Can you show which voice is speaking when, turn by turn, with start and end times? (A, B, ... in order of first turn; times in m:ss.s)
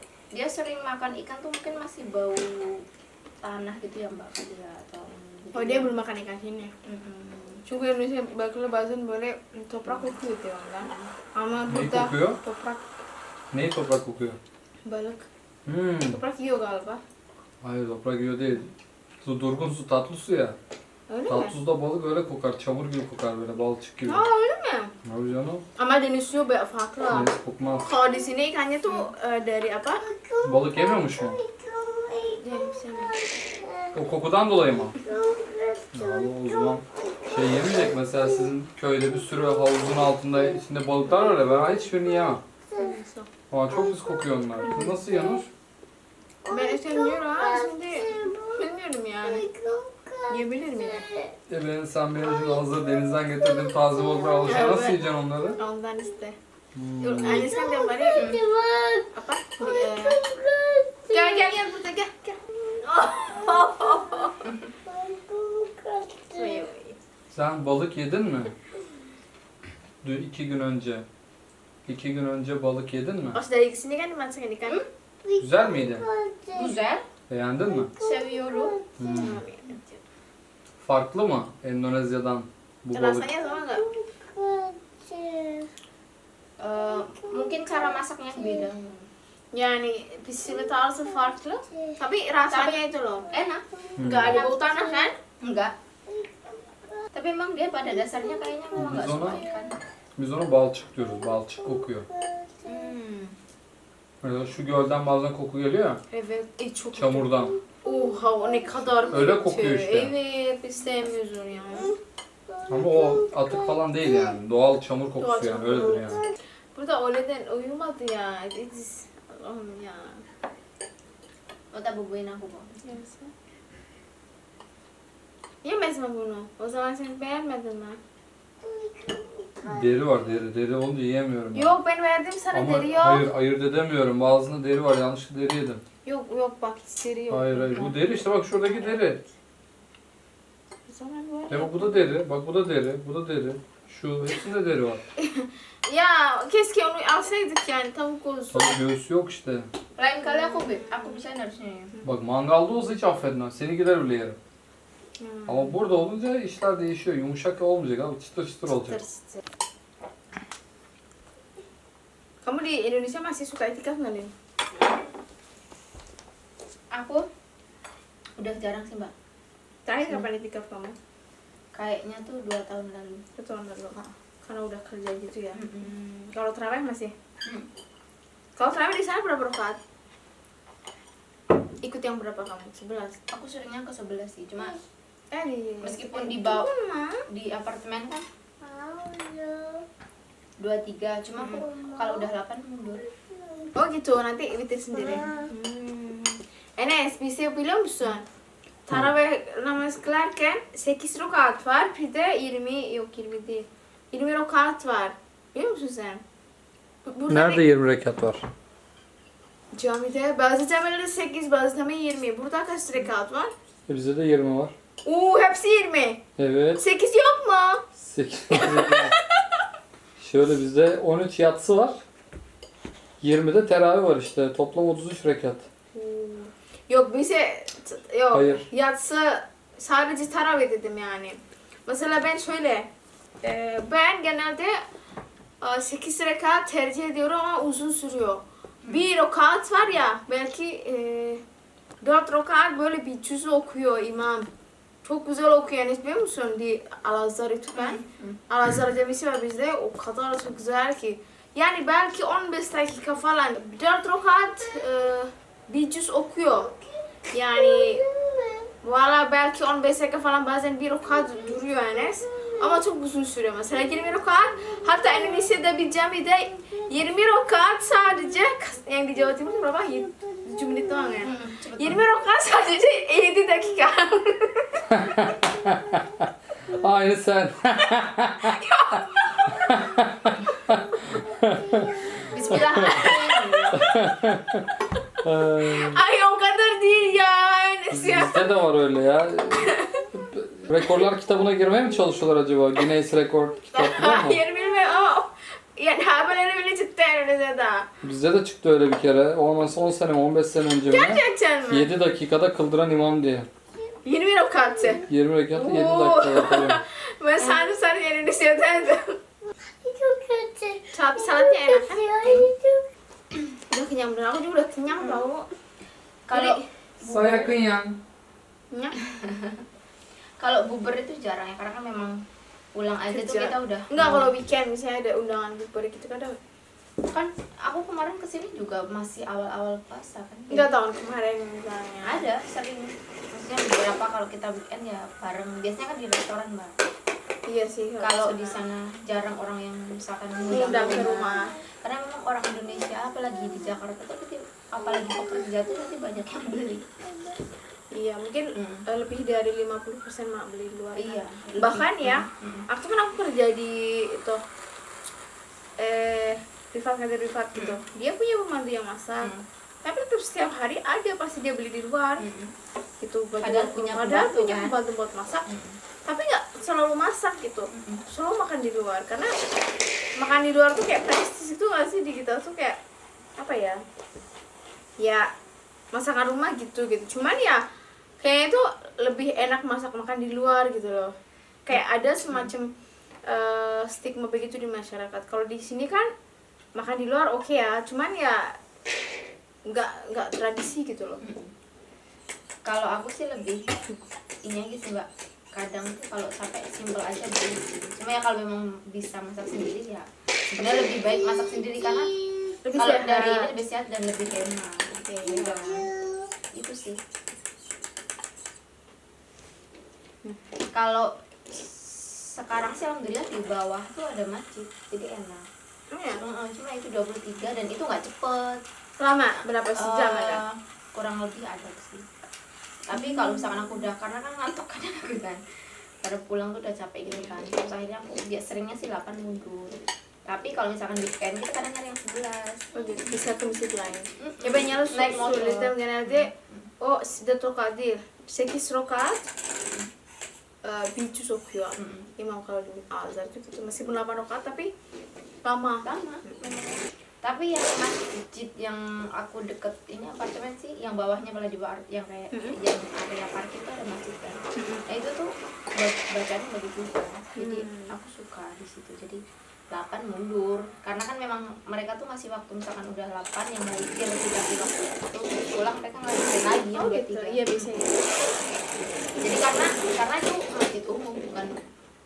0:00.3-0:02.8 A
0:03.4-0:05.9 A
0:05.5-0:06.7 B
0:06.8-0:07.6 A
0:07.6-0:12.8 B
0:10.8-0:11.1 A
0:11.7-0:12.4 C
0:13.5-0:14.4 C
0:14.8-0:15.3 B
0:15.6-0:16.2 C
0:16.1-0:17.0 B
0:17.6-0:18.6 C
0:19.2-0:20.6 C
0:21.1-0:21.6 B
0:21.3-0:24.2 C
0:24.0-0:24.9 B
0:25.0-0:25.6 C
0:25.8-0:27.3 B
0:27.1-0:27.9 C
0:27.8-0:30.1 B
0:27.8-0:28.2 D
0:30.0-0:34.0 D
0:30.4-0:31.4 C
0:32.4-0:33.2 B
0:33.9-0:34.9 C
0:34.9-0:43.0 D
0:35.9-0:42.4 C
0:42.8-0:43.3 B
0:43.5-0:45.5 C
0:43.7-0:45.4 D
0:46.4-0:48.6 D
0:46.5-0:49.4 B
0:49.2-0:51.3 D
0:50.3-0:51.0 B
0:51.5-0:55.6 C
0:52.2-0:54.9 D
0:54.4-0:55.0 B
0:55.5-0:56.4 B
0:56.7-0:57.5 C
0:57.0-0:58.3 B
0:57.2-1:01.6 D
0:59.1-1:00.2 B
1:01.1-1:04.4 B
1:02.7-1:06.7 D
1:06.3-1:07.0 B
1:07.3-1:08.5 C
1:10.0-1:11.1 C
1:11.9-1:13.4 C
1:13.3-1:14.8 B
1:15.2-1:16.8 D
1:15.4-1:16.0 C
1:16.5-1:17.0 A
1:17.3-1:17.9 C
1:17.6-1:19.3 D
1:18.0-1:18.8 A
1:19.0-1:19.4 C
1:19.1-1:20.0 B
1:20.8-1:23.3 C
1:22.9-1:23.8 B
1:23.5-1:25.7 D
1:26.6-1:29.1 A
1:27.0-1:28.7 D
1:29.5-1:33.3 B
1:30.4-1:31.8 D
1:32.5-1:32.8 A
1:33.3-1:34.0 D
1:33.3-1:33.6 A
1:34.0-1:34.4 C
1:34.0-1:35.2 B
1:34.2-1:35.7 A
1:36.1-1:37.0 D
1:37.1-1:39.8 A
1:37.9-1:39.7 D
1:38.8-1:39.4 C
1:40.2-1:42.0 C
1:41.0-1:42.7 D
1:42.6-1:43.3 B
1:44.2-1:46.0 C
1:46.1-1:47.3 B
1:46.9-1:47.6 C
1:47.8-1:51.9 B
1:49.1-1:50.1 C
1:52.5-1:54.4 D
1:52.7-1:56.2 C
1:55.2-1:56.1 B
1:55.7-1:56.3 D
1:56.7-2:00.2 B
2:01.7-2:02.8 A
2:02.8-2:03.3 B
2:05.6-2:08.0 B
2:08.6-2:09.9 D
2:09.6-2:11.8 C
2:11.5-2:13.3 B
2:12.5-2:15.8 C
2:16.0-2:18.0 B
2:17.3-2:19.2 C
2:20.9-2:22.1 B
2:21.5-2:25.0 C
2:25.2-2:28.8 B
2:28.5-2:29.7 C
2:30.0-2:31.9 A
2:30.2-2:31.2 B
2:32.0-2:34.4 C
2:35.2-2:35.8 B
2:35.5-2:39.0 C
2:38.9-2:39.4 B
2:42.4-2:44.3 B
2:46.9-2:47.3 A
2:48.4-2:49.1 A
2:49.8-2:51.0 B
2:51.7-2:53.2 A
2:53.4-2:57.1 B
2:55.5-2:55.9 A
2:58.6-2:59.8 B
3:01.8-3:03.2 B
3:03.3-3:04.8 A
3:05.3-3:07.2 B
3:05.8-3:06.7 A
3:07.3-3:08.2 A
3:08.6-3:09.8 D
3:10.6-3:13.0 A
3:11.6-3:12.3 D
3:13.0-3:13.7 D
3:13.7-3:18.2 B
3:15.0-3:15.5 D
3:18.9-3:26.2 B
3:27.1-3:27.6 B
3:27.3-3:28.4 C
3:29.7-3:33.5 B
3:33.9-3:34.7 C
3:35.0-3:36.2 B
3:36.4-3:36.8 C
3:36.8-3:37.8 B
3:38.0-3:39.1 C
3:38.5-3:39.1 B
3:40.2-3:42.0 C
3:43.2-3:45.6 C
3:45.9-3:52.9 B
3:48.3-3:48.6 C
3:53.4-3:54.8 B
3:55.6-4:01.4 B
4:02.0-4:04.5 B
4:05.0-4:16.7 B
4:07.7-4:08.4 A
4:16.5-4:17.0 D
4:17.3-4:18.0 B
4:17.5-4:18.7 D
4:18.8-4:34.8 B
4:21.1-4:22.8 D
4:24.1-4:25.6 D
4:29.4-4:31.0 D
4:31.2-4:32.0 A
4:34.9-4:36.0 C
4:35.6-4:36.1 D
4:36.7-4:38.6 C
4:38.4-4:39.8 B
4:39.6-4:41.9 C
4:41.6-4:42.8 D
4:42.3-4:43.9 A
4:42.5-4:43.1 C
4:42.8-4:43.8 B
4:43.7-4:44.7 C
4:45.2-4:46.0 C
4:45.6-4:48.5 B
4:47.9-4:54.4 C
4:49.7-4:50.0 B
4:53.7-4:57.9 B
4:58.0-5:03.5 C
5:00.9-5:01.9 B
5:04.0-5:09.2 B
5:04.5-5:05.0 D
5:05.1-5:06.8 C
5:09.8-5:12.8 D
5:10.9-5:12.0 B
5:13.7-5:15.5 B
5:16.3-5:17.5 A
5:16.3-5:16.7 B
5:17.0-5:18.0 C
5:18.7-5:19.0 B
5:19.0-5:19.6 A
5:20.4-5:22.2 A
5:22.7-5:24.3 A
5:23.1-5:26.4 B
5:27.0-5:30.8 A
5:30.5-5:32.3 B
5:32.0-5:36.7 A
5:37.5-5:38.6 B
5:38.0-5:46.9 A
5:40.5-5:41.6 B
5:47.9-5:54.4 B
5:48.6-5:48.8 A
5:51.0-5:52.7 A
5:55.8-5:59.3 B
5:59.8-6:02.2 B
6:02.2-6:02.5 A
6:03.0-6:05.5 B
6:03.4-6:04.7 A
6:05.5-6:05.8 A
6:06.0-6:09.4 B
6:07.7-6:08.0 A
6:10.2-6:12.8 B
6:13.4-6:13.8 B
6:15.0-6:15.3 B
6:15.9-6:17.6 B
6:18.2-6:21.1 B
6:21.7-6:22.7 B
6:23.2-6:26.1 B
6:26.7-6:28.6 B
6:29.7-6:31.2 B
6:31.2-6:31.5 A
6:32.6-6:33.7 A
6:34.4-6:42.1 A
6:40.6-6:42.5 D
6:42.6-6:43.5 B
6:42.8-6:45.9 A
6:45.1-6:45.5 B
6:45.3-6:46.3 D
6:46.5-6:47.0 A
6:50.7-6:55.4 A
6:55.9-6:56.2 B
6:56.1-6:58.6 A
6:59.0-7:00.4 B
6:59.8-7:02.0 A
7:02.9-7:05.4 A
7:02.9-7:03.9 B
7:06.0-7:12.7 A
7:12.7-7:19.3 B
7:14.2-7:16.7 A
7:20.6-7:24.7 B
7:21.8-7:22.1 A
7:25.4-7:26.3 B
7:25.8-7:39.2 A
7:34.6-7:34.8 B
7:37.4-7:37.9 B
7:39.7-7:47.7 A
7:46.7-7:48.2 B
7:49.2-7:51.5 A